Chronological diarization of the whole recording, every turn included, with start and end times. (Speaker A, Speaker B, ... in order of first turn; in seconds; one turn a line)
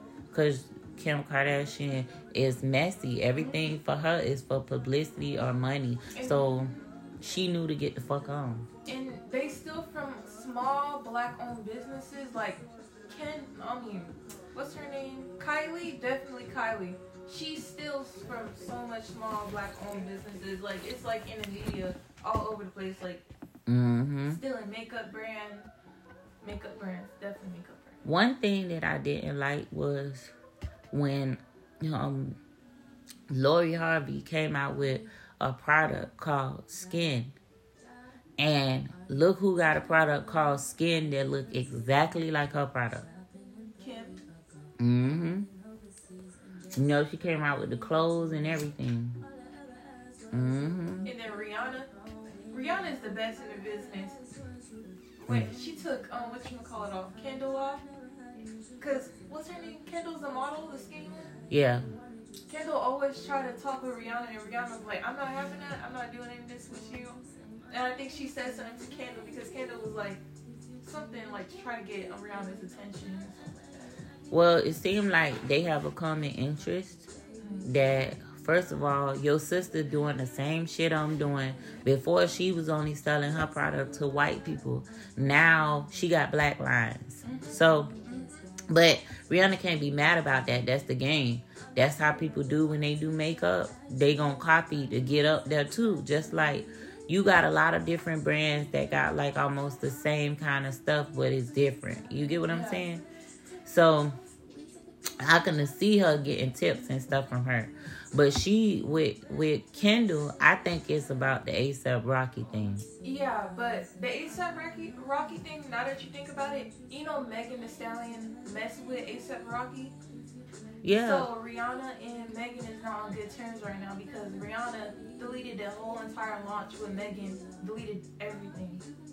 Speaker A: 0.3-8.7
Speaker B: 3.4-3.7
Speaker B: 6.1-6.9
Speaker B: 8.9-23.2
Speaker A: 23.7-24.4
Speaker B: 24.4-25.7
Speaker B: 26.4-28.0
Speaker A: 28.0-30.3
Speaker A: 30.9-32.4
Speaker A: 33.3-37.4
Speaker A: 38.4-43.1
Speaker B: 43.8-44.2
Speaker A: 44.8-45.5
Speaker A: 46.8-49.2
Speaker A: 50.3-51.1
Speaker B: 51.0-51.9
Speaker B: 52.5-54.2
Speaker B: 55.2-57.9
Speaker B: 58.8-61.3
Speaker A: 61.5-61.9
Speaker B: 62.5-70.2
Speaker B: 70.8-74.0
Speaker A: 74.3-77.1
Speaker B: 77.4-77.7
Speaker A: 77.7-87.9
Speaker B: 87.2-88.4
Speaker A: 88.7-103.0
Speaker B: 102.5-102.9
Speaker A: 103.7-104.2
Speaker A: 105.2-112.9
Speaker B: 113.0-120.0
Speaker A: 120.8-121.3
Speaker B: 121.0-128.9